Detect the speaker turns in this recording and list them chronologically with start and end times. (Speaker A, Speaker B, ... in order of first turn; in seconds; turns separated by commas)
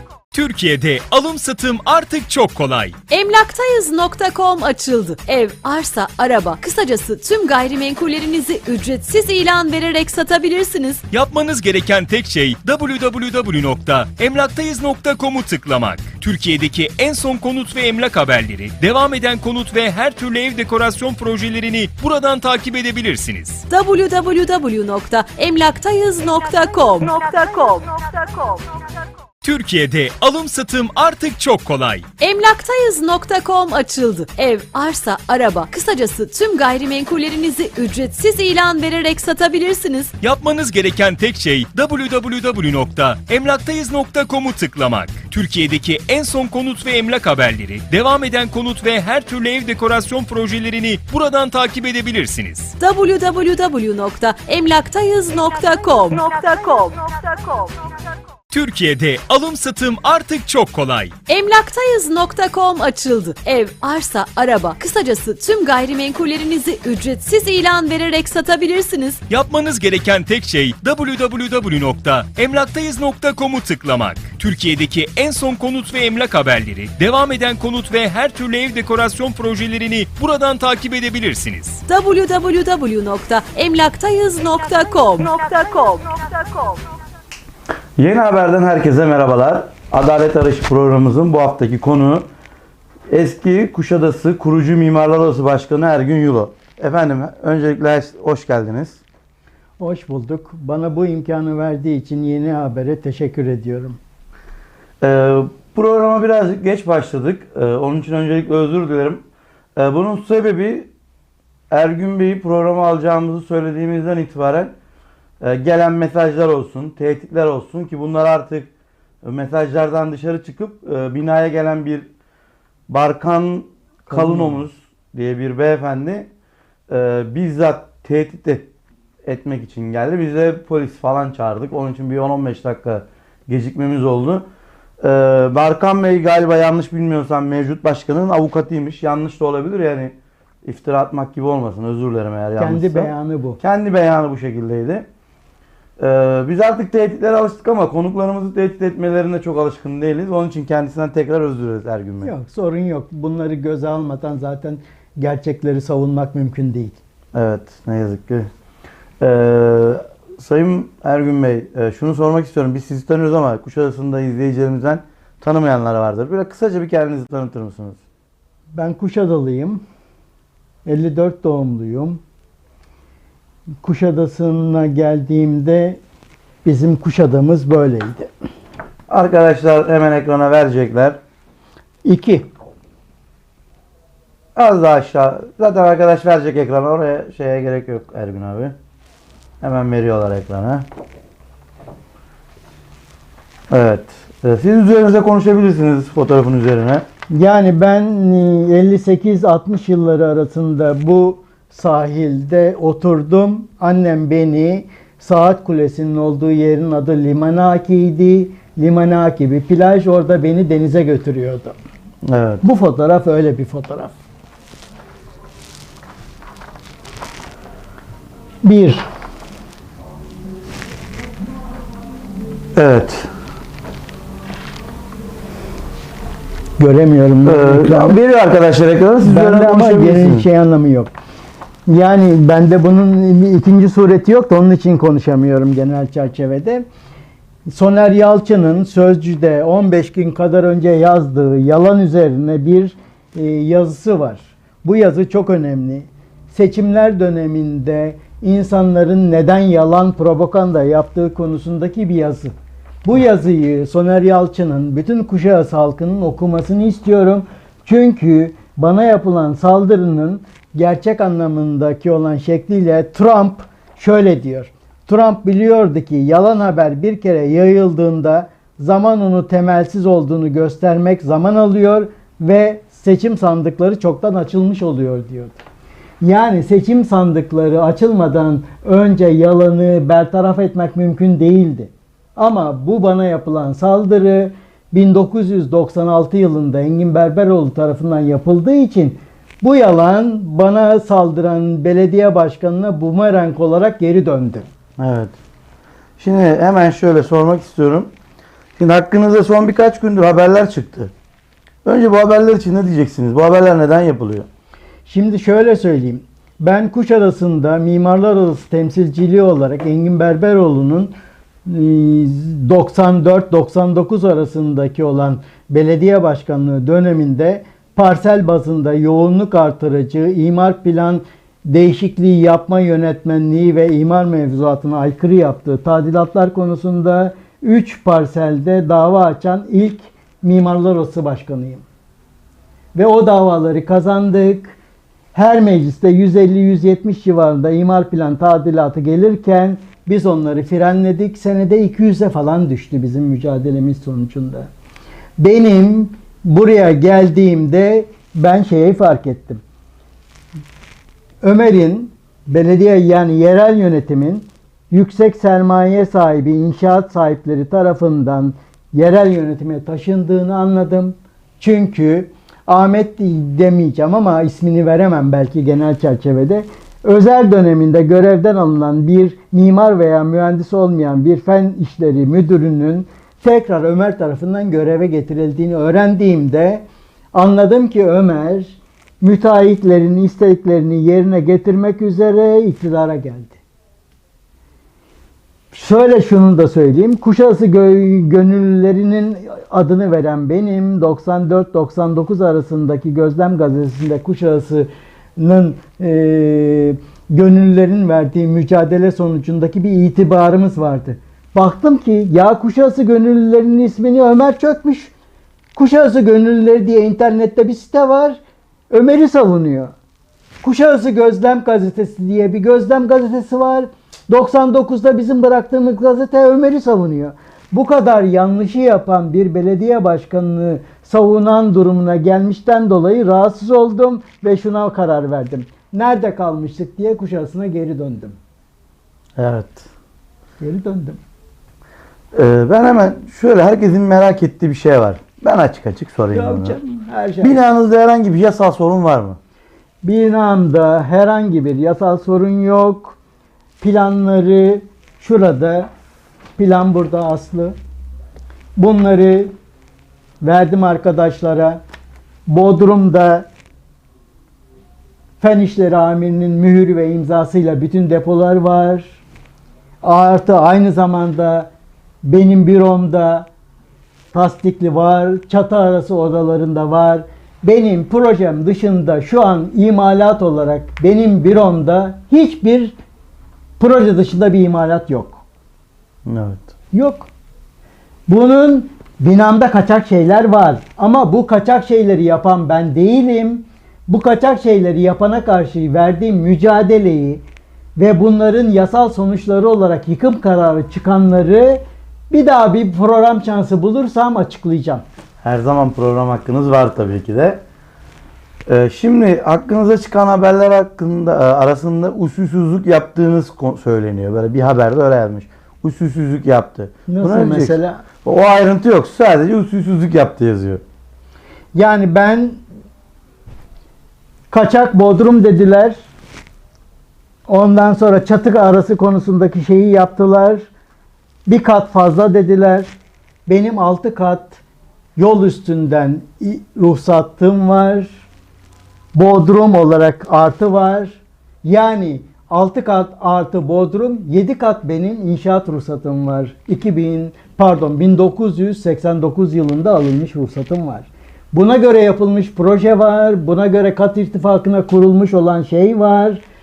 Speaker A: 0.3-3.0, Speaker B: 3.1-11.1, Speaker A: 11.1-23.7, Speaker B: 23.7-28.6, Speaker A: 29.4-32.1, Speaker B: 32.2-40.2, Speaker A: 40.2-52.8, Speaker B: 52.8-57.7, Speaker A: 58.5-61.1, Speaker B: 61.3-69.3, Speaker A: 69.3-81.8, Speaker B: 81.9-86.8, Speaker C: 88.0-92.3, Speaker C: 93.1-99.0, Speaker D: 99.8-104.0, Speaker C: 105.0-109.2, Speaker C: 109.8-110.9, Speaker C: 111.7-114.8, Speaker C: 115.4-118.7, Speaker C: 119.2-122.1, Speaker C: 122.9-126.3, Speaker D: 124.1-124.6, Speaker C: 126.9-128.7, Speaker C: 129.2-134.5, Speaker C: 135.0-145.1, Speaker D: 142.6-143.6, Speaker C: 146.0-152.3, Speaker D: 152.2-157.0, Speaker C: 157.3-158.5, Speaker C: 159.2-168.0, Speaker D: 168.7-169.8, Speaker D: 170.8-172.2, Speaker D: 173.8-176.0, Speaker D: 176.6-178.3, Speaker C: 179.1-181.2, Speaker D: 182.0-182.5, Speaker C: 184.6-188.7, Speaker C: 189.6-190.9, Speaker C: 193.7-197.1, Speaker D: 197.3-211.8, Speaker C: 212.2-212.6, Speaker D: 212.6-214.2, Speaker D: 218.6-219.1, Speaker C: 222.8-223.3, Speaker D: 226.8-228.2, Speaker C: 227.4-230.5, Speaker D: 229.2-231.1, Speaker D: 231.9-236.9, Speaker D: 237.7-252.5, Speaker D: 253.0-275.6, Speaker D: 276.2-294.7, Speaker C: 295.0-295.4, Speaker C: 296.2-298.1, Speaker C: 298.8-301.1, Speaker C: 301.9-304.5, Speaker D: 305.1-311.1, Speaker D: 311.7-331.8, Speaker D: 332.9-334.8, Speaker D: 335.3-344.7, Speaker D: 345.4-349.6, Speaker D: 351.4-383.6, Speaker D: 385.7-405.1, Speaker D: 405.8-409.9, Speaker D: 410.6-428.4, Speaker C: 429.4-429.9, Speaker D: 430.6-431.2, Speaker C: 432.3-436.8, Speaker D: 436.3-437.6, Speaker C: 437.4-439.4, Speaker D: 440.0-443.2, Speaker D: 443.8-445.9, Speaker D: 446.6-447.8, Speaker D: 448.8-449.5, Speaker D: 450.4-451.8, Speaker D: 452.5-453.5, Speaker D: 455.4-459.2, Speaker D: 460.0-461.7, Speaker D: 462.2-463.5, Speaker D: 464.3-473.0, Speaker D: 473.8-475.4, Speaker C: 476.3-476.7, Speaker D: 476.9-477.3, Speaker D: 478.3-487.4, Speaker D: 488.0-495.1, Speaker C: 495.4-497.6, Speaker C: 498.7-510.8, Speaker D: 507.1-508.0, Speaker D: 511.7-512.6, Speaker D: 514.5-516.0, Speaker D: 517.5-520.7, Speaker D: 521.5-523.0, Speaker D: 523.5-524.6, Speaker D: 525.2-528.3, Speaker D: 529.1-546.4